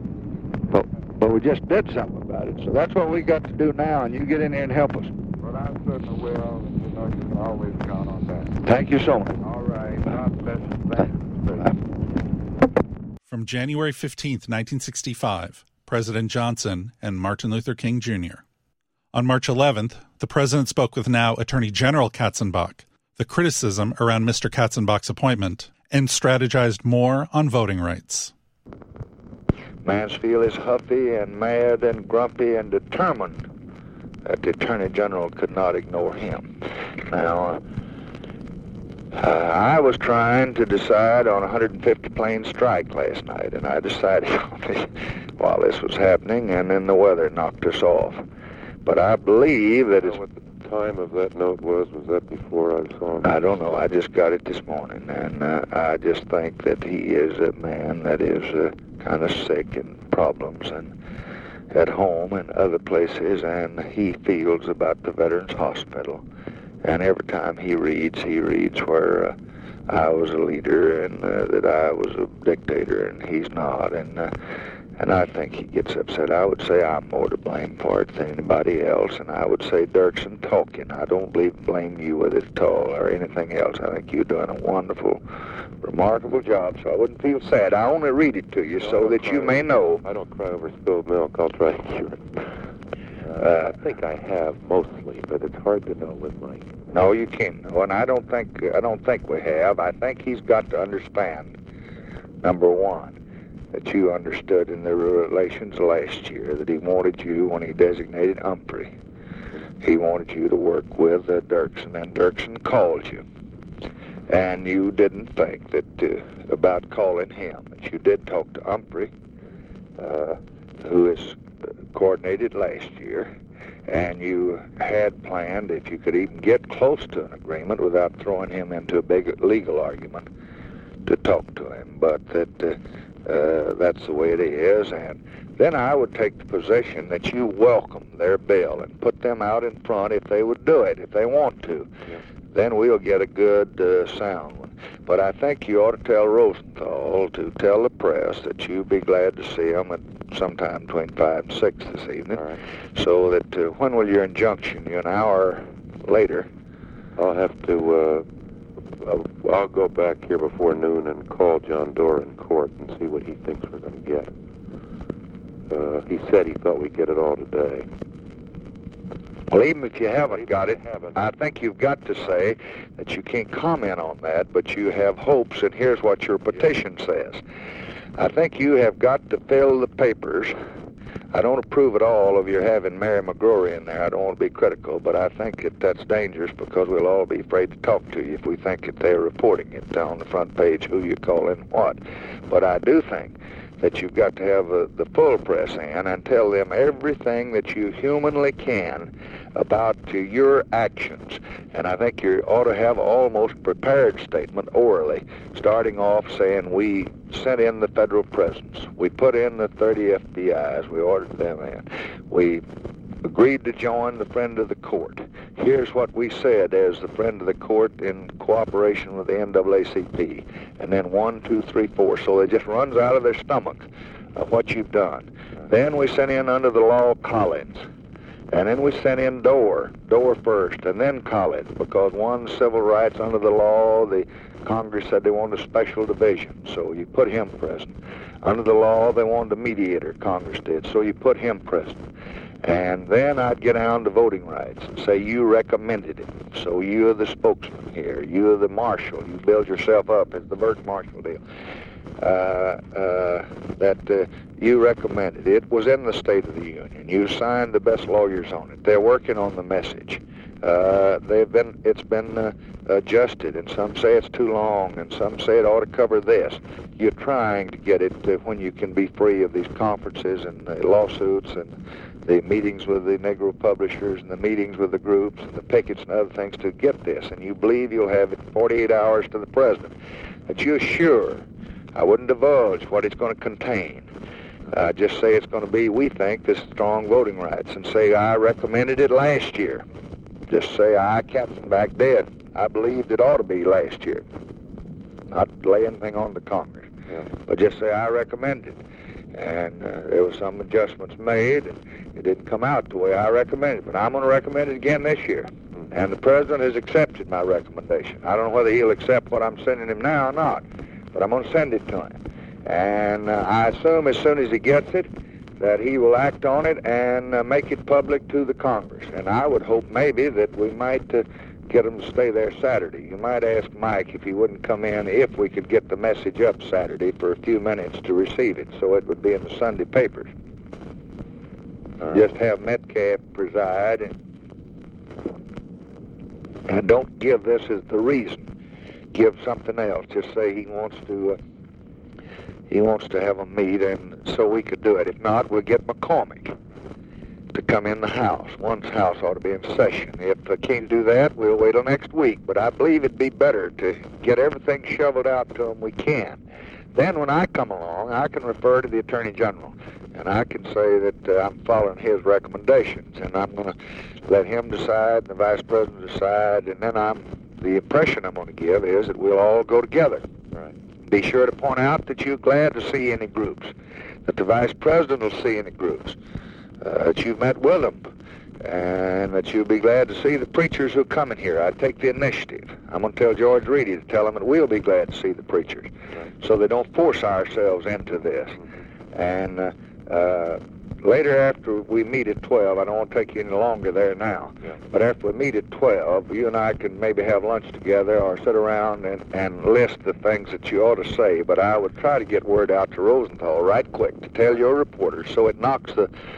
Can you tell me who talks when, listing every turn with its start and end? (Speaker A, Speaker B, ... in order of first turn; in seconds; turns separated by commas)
Speaker A: 0.7-5.1, Speaker B: 5.4-8.6, Speaker A: 8.6-9.4, Speaker B: 9.4-11.8, Speaker C: 13.3-18.4, Speaker C: 19.1-28.3, Speaker D: 29.8-33.4, Speaker D: 34.2-36.5, Speaker D: 37.1-37.6, Speaker D: 39.1-48.2, Speaker D: 48.8-50.2, Speaker E: 50.0-53.4, Speaker D: 53.2-60.9, Speaker D: 61.7-66.2, Speaker D: 66.8-69.3, Speaker D: 69.9-74.3, Speaker D: 75.0-85.2, Speaker D: 85.8-90.0, Speaker E: 88.8-92.3, Speaker E: 93.2-96.7, Speaker D: 93.3-93.8, Speaker D: 96.9-101.5, Speaker D: 102.4-103.2, Speaker D: 103.7-108.9, Speaker D: 109.8-113.2, Speaker D: 114.3-119.1, Speaker D: 120.0-121.4, Speaker D: 121.9-123.3, Speaker D: 123.9-130.3, Speaker D: 131.1-141.9, Speaker D: 142.5-152.4, Speaker E: 152.3-152.6, Speaker D: 152.9-156.5, Speaker E: 157.2-158.2, Speaker E: 159.0-164.3, Speaker E: 165.7-167.9, Speaker D: 169.5-177.4, Speaker E: 170.2-171.2, Speaker D: 178.2-180.5, Speaker D: 181.3-212.6, Speaker D: 213.2-227.8, Speaker D: 228.5-242.0, Speaker D: 242.6-251.4, Speaker D: 252.2-279.9, Speaker D: 280.5-284.1, Speaker D: 284.7-289.8, Speaker D: 290.5-294.2, Speaker D: 295.3-296.9, Speaker D: 297.5-298.8, Speaker D: 299.3-330.3, Speaker D: 332.1-334.1, Speaker D: 336.7-338.5, Speaker D: 339.1-341.4, Speaker D: 342.7-346.5, Speaker D: 347.5-356.4, Speaker D: 356.9-363.7, Speaker D: 364.2-370.2, Speaker D: 371.1-373.7, Speaker D: 374.2-376.2, Speaker D: 376.8-378.1, Speaker D: 378.6-388.6, Speaker D: 389.1-406.1